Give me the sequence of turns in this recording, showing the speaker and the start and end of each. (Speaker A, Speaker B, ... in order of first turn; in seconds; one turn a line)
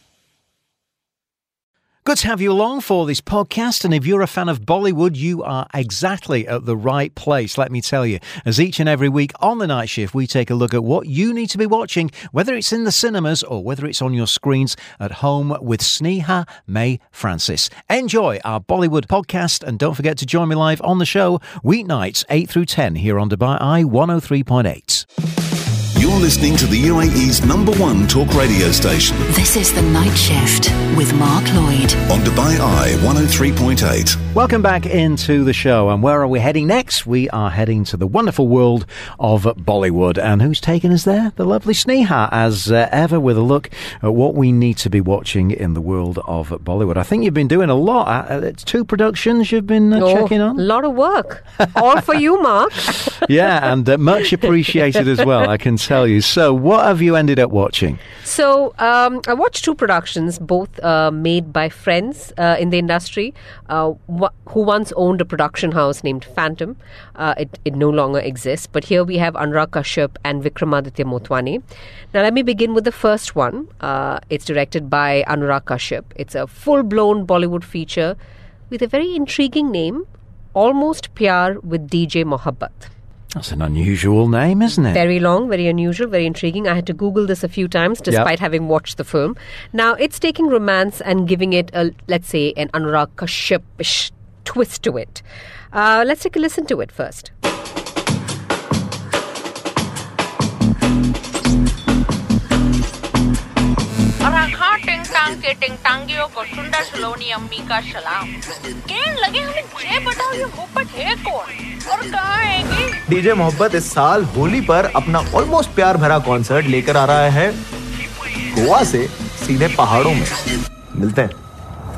Speaker A: 2.0-25.0
Speaker B: 25.9-29.3
Speaker C: 29.3-32.0
Speaker B: 32.1-34.2
Speaker A: 34.3-50.6
Speaker D: 50.0-53.2
Speaker A: 53.2-58.0
Speaker D: 58.2-71.6
Speaker D: 72.1-78.2
Speaker D: 78.7-82.9
Speaker A: 83.3-85.0
Speaker D: 84.9-97.3
Speaker E: 104.2-108.3
Speaker E: 108.8-113.0
Speaker F: 113.1-117.6
Speaker F: 118.5-120.4
Speaker F: 120.9-121.3